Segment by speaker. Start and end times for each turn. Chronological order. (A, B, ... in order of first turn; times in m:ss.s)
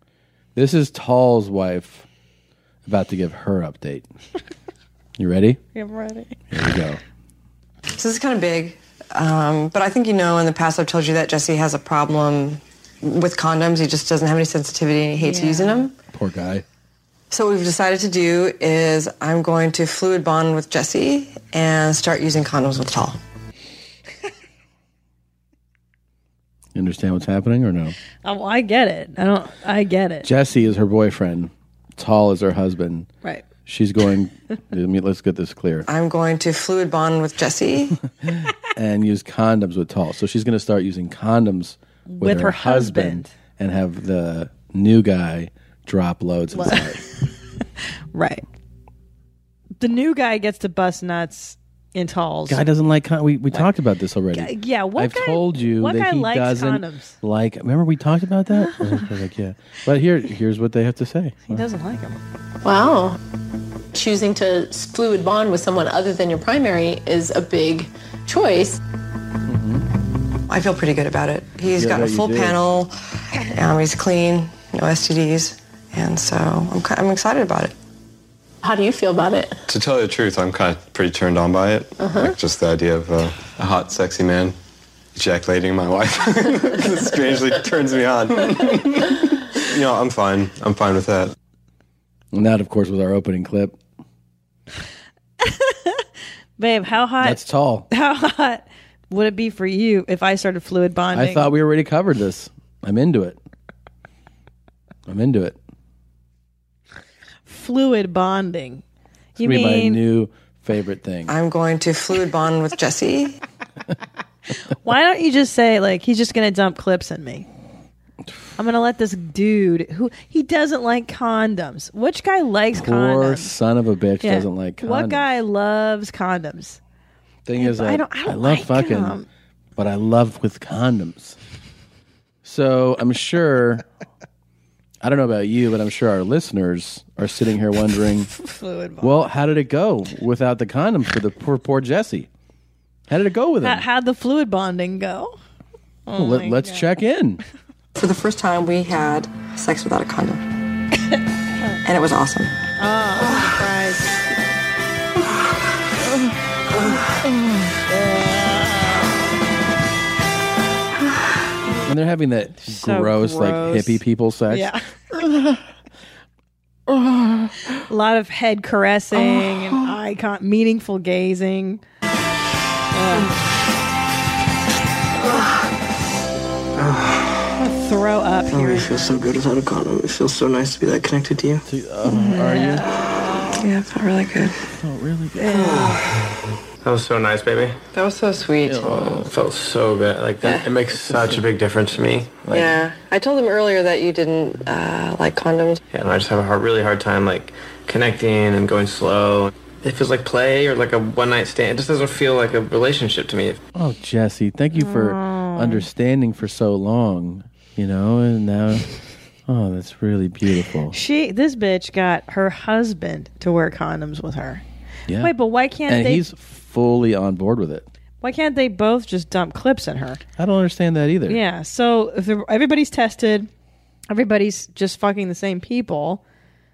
0:00.5-0:02.0 A
0:02.8-0:04.1 A
0:05.2-0:05.6 A
0:05.7-0:06.4 B
0:06.5-0:07.0 A
0:07.9-0:15.9 C
0:15.2-0:15.8 B
0:16.1-0:16.6 A
0:17.3-0:23.2 C
0:26.7-0:28.0 A
0:28.2-0:30.3 B
0:30.2-0:33.1 A
0:33.6-0:35.9 A
0:35.9-0:38.0 C
0:38.2-0:47.0 A
0:42.1-0:43.3 B
0:46.5-0:46.8 B
0:48.1-0:48.4 B
0:49.8-0:52.6 B
0:52.5-1:01.6 A
0:54.3-0:57.2 B
0:58.6-0:59.0 B
1:01.5-1:02.2 B
1:02.6-1:03.2 D
1:03.9-1:08.8 D
1:09.4-1:09.9 A
1:10.5-1:12.9 C
1:11.7-1:12.6 A
1:13.5-1:17.7 C
1:18.6-1:19.6 D
1:19.7-1:24.5 E
1:22.0-1:22.3 D
1:25.1-1:31.3 E
1:32.3-1:33.8 A
1:35.4-1:36.0 B
1:36.6-1:37.4 B
1:37.2-1:37.9 A
1:37.9-1:41.5 B
1:41.1-1:43.4 A
1:45.1-1:45.6 A
1:47.5-1:48.8 B
1:49.4-1:50.0 B
1:49.4-1:51.3 A
1:51.3-1:53.4 C
1:54.8-1:57.5 B
1:58.6-2:03.5 B
2:02.7-2:05.2 A
2:04.2-2:06.8 B
2:07.4-2:09.2 A
2:07.6-2:09.3 B
2:09.8-2:11.4 A
2:12.4-2:13.8 A
2:15.0-2:18.3 A
2:18.3-2:19.2 B
2:19.0-2:22.3 A
2:23.1-2:23.8 A
2:23.6-2:25.4 B
2:26.1-2:26.8 B
2:26.1-2:27.4 A
2:28.0-2:30.4 C
2:31.8-2:32.5 C
2:32.8-2:34.2 B
2:37.9-2:39.0 B
2:41.8-2:44.7 A
2:42.6-2:44.8 B
2:46.9-2:47.6 A
2:47.9-2:51.8 B
2:52.9-2:53.3 B
2:56.8-2:57.4 F
2:57.6-2:58.9 B
2:58.5-3:01.6 F
3:01.6-3:02.9 A
3:02.1-3:02.5 C
3:02.5-3:03.6 B
3:03.6-3:04.6 C
3:04.7-3:05.7 A
3:05.4-3:06.0 B
3:06.8-3:07.8 G
3:07.9-3:09.3 C
3:08.6-3:09.2 A
3:09.1-3:12.5 G
3:10.4-3:10.7 C
3:10.9-3:11.4 A
3:12.4-3:12.7 A
3:12.5-3:15.8 C
3:15.9-3:23.6 G
3:23.7-3:28.8 A
3:24.8-3:25.8 B
3:29.5-3:30.9 A
3:30.9-3:34.6 B
3:35.1-3:35.3 A
3:35.2-3:36.2 B
3:35.9-3:37.8 A
3:38.2-3:40.2 B
3:40.4-3:41.4 A
3:41.3-3:43.5 B
3:44.1-3:46.2 B